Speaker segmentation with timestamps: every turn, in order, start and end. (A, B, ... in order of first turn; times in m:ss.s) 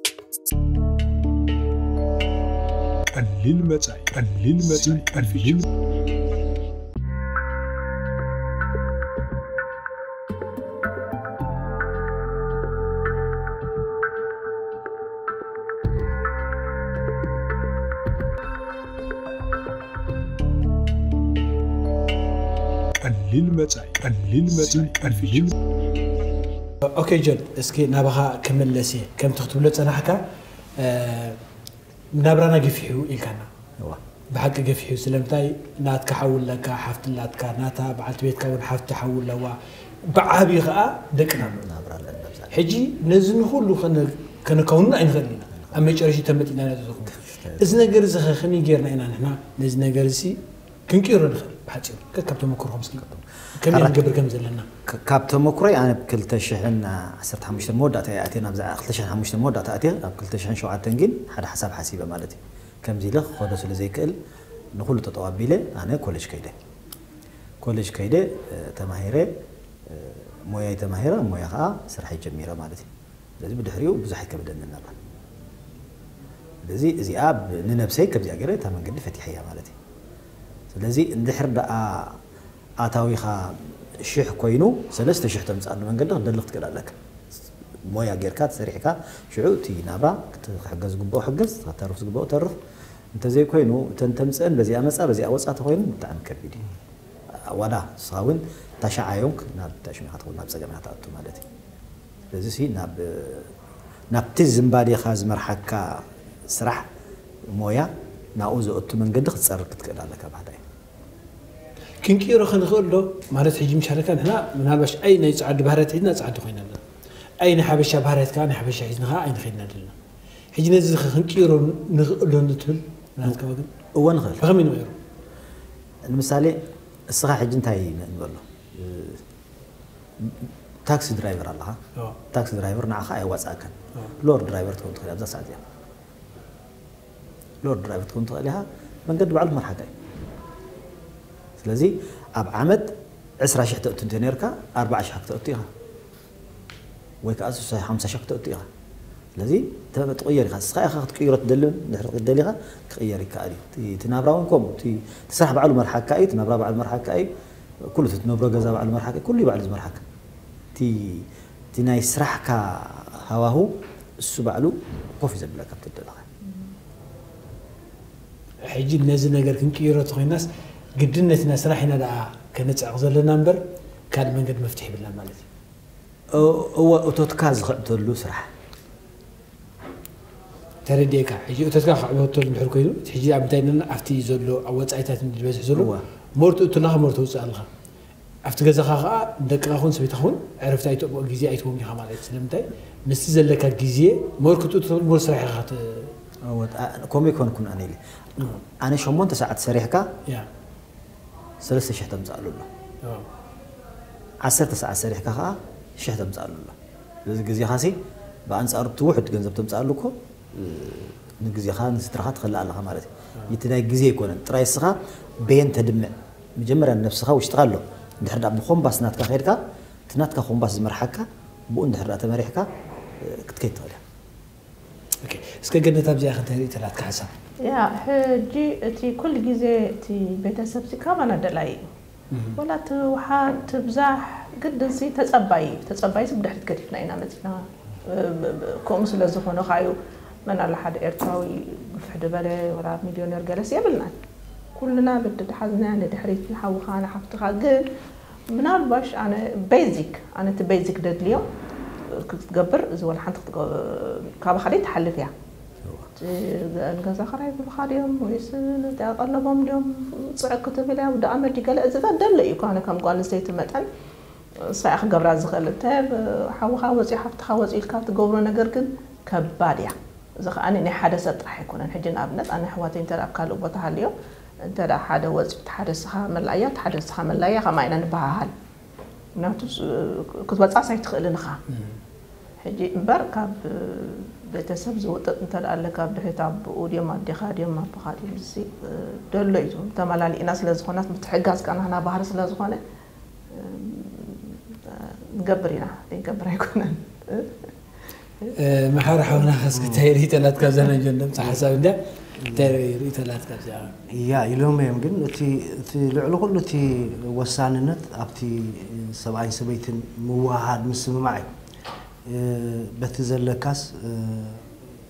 0:03.1-0:05.6 A
0:23.0-0:25.5 A
0:26.8-0:30.2 B
0:30.8-0:31.4 B
0:32.2-0:33.5 B
0:34.3-0:39.6 B
0:40.1-0:41.6 B
0:41.4-0:42.6 C
0:42.5-0:54.7 B
0:47.1-0:47.8 C
0:53.2-0:54.2 C
0:54.9-1:04.2 C
1:04.8-1:06.6 C
1:07.6-1:09.3 C
1:09.9-1:12.9 C
1:13.4-1:15.0 C
1:16.6-1:19.8 C
1:20.7-1:22.2 C
1:22.8-1:27.0 C
1:27.8-1:32.6 C
1:33.1-1:36.6 C
1:37.3-1:41.4 C
1:42.3-1:43.5 C
1:44.1-1:46.9 C
1:47.5-1:50.6 C
1:52.0-1:56.8 B
1:57.4-2:00.0 B
2:00.6-2:03.7 B
2:03.9-2:04.4 C
2:04.4-2:05.0 B
2:06.1-2:09.2 C
2:10.2-2:11.8 C
2:12.3-2:15.6 C
2:17.6-2:19.9 C
2:21.6-2:25.7 C
2:27.2-2:28.7 C
2:29.4-2:37.3 C
2:37.9-2:40.0 C
2:40.8-2:46.2 C
2:48.7-2:50.5 B
2:51.0-2:55.5 B
2:56.3-2:58.5 C
3:00.9-3:07.7 B
3:05.7-3:06.0 C
3:08.5-3:16.1 B
3:16.4-3:20.1 C
3:21.6-3:22.7 C
3:24.4-3:26.8 C
3:27.3-3:28.0 C
3:28.5-3:42.7 C
3:43.2-3:44.0 C
3:45.2-3:47.3 B
3:47.6-3:51.8 D
3:52.3-3:52.6 B
3:52.6-4:04.1 D
4:04.8-4:07.8 D
4:08.5-4:11.5 D
4:12.1-4:15.3 D
4:16.2-4:23.8 D
4:24.6-4:38.5 D
4:39.4-4:41.6 D
4:41.7-4:42.0 B
4:42.6-4:52.8 D
4:53.5-4:57.7 D
4:58.6-5:03.9 B
4:59.7-5:00.0 E
5:02.4-5:02.7 E
5:04.1-5:11.5 E
5:12.3-5:14.7 E